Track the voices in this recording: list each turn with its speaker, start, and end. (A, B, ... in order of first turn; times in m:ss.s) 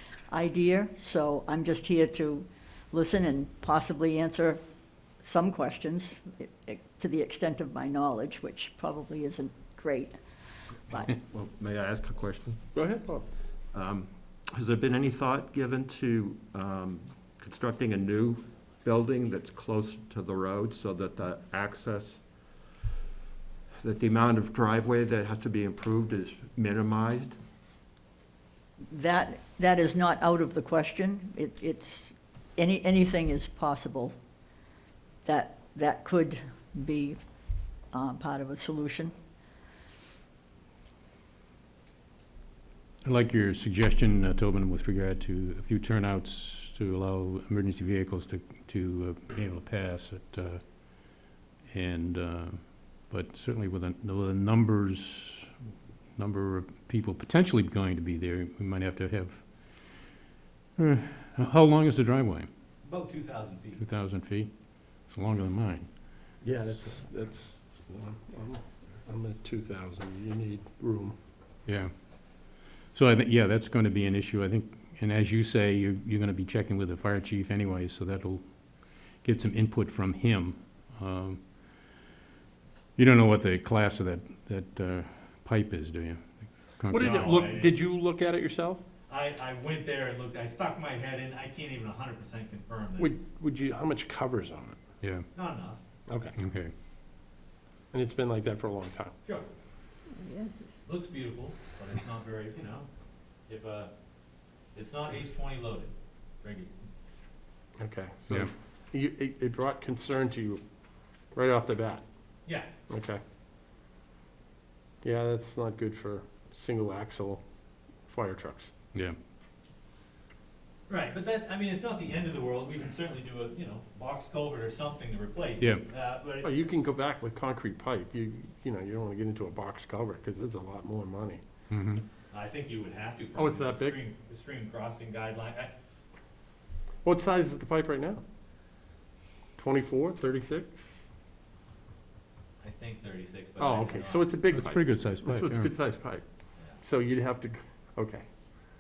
0:00.3-0:04.6 A
0:05.2-0:10.2 A
0:11.1-0:12.6 B
0:12.7-0:13.2 C
0:13.7-0:22.2 B
0:23.8-0:27.4 B
0:28.9-0:34.1 A
0:35.2-0:37.2 A
0:37.9-0:39.1 A
0:43.0-0:55.5 D
0:56.2-1:00.1 D
1:00.8-1:02.5 D
1:02.8-1:03.8 E
1:03.8-1:05.9 D
1:06.4-1:11.2 C
1:11.7-1:21.9 D
1:23.0-1:27.4 D
1:26.9-1:28.8 C
1:27.0-1:27.7 E
1:29.1-1:33.2 E
1:33.0-1:34.8 C
1:35.0-1:35.3 D
1:35.3-1:35.8 E
1:36.1-1:36.3 C
1:36.4-1:36.7 D
1:37.9-1:39.1 C
1:40.1-1:40.7 A
1:40.8-1:42.9 E
1:43.5-1:43.9 E
1:44.7-1:46.7 E
1:47.8-1:50.6 C
1:51.3-1:52.0 C
1:52.9-1:53.2 C
1:55.0-1:57.4 C
1:58.1-1:58.7 C
2:00.9-2:06.6 E
2:06.4-2:11.4 C
2:11.7-2:12.0 D
2:12.3-2:15.7 E
2:13.4-2:14.0 C
2:17.0-2:18.2 C
2:19.6-2:20.9 C
2:22.6-2:24.3 E
2:23.6-2:26.2 C
2:24.5-2:25.7 D
2:26.8-2:28.2 C